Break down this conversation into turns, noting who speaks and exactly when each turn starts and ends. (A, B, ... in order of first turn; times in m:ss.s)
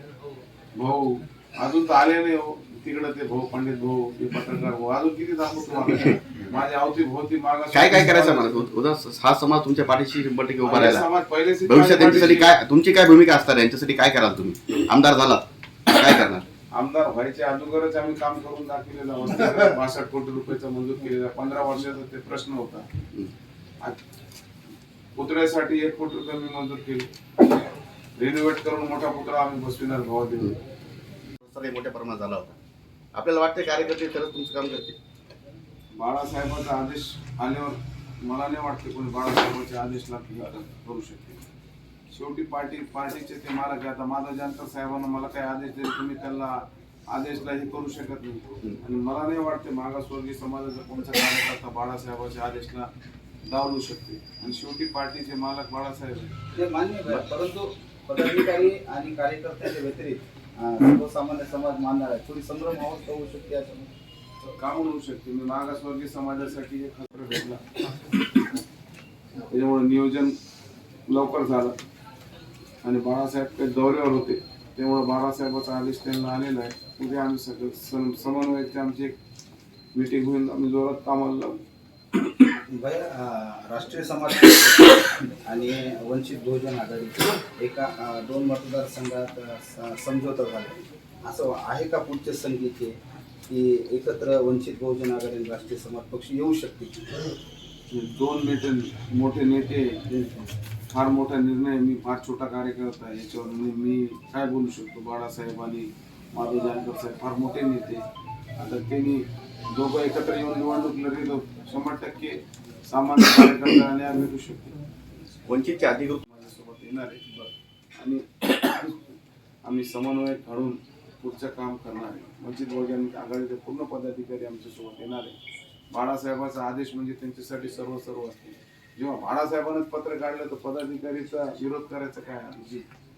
0:00.8-0:08.6 A
0:07.7-0:11.0 B
0:10.6-0:12.5 A
0:11.6-0:16.4 B
0:16.7-0:22.9 A
0:25.2-0:27.1 A
0:28.2-0:30.6 A
0:31.4-0:32.5 B
0:33.1-0:35.0 B
0:36.0-0:41.4 A
0:42.1-0:52.9 A
0:53.4-0:56.3 A
0:56.5-1:03.9 C
1:04.5-1:07.6 A
1:09.5-1:10.4 A
1:11.1-1:11.8 A
1:12.8-1:19.2 A
1:19.9-1:21.6 A
1:22.7-1:32.9 C
1:33.5-1:37.0 C
1:37.9-1:40.0 A
1:40.1-1:40.6 C
1:40.9-1:48.0 A
1:48.6-1:54.8 A
1:55.4-1:56.2 B
1:56.3-1:57.3 A
1:58.0-1:59.0 A
1:59.6-2:05.4 A
2:05.9-2:12.8 A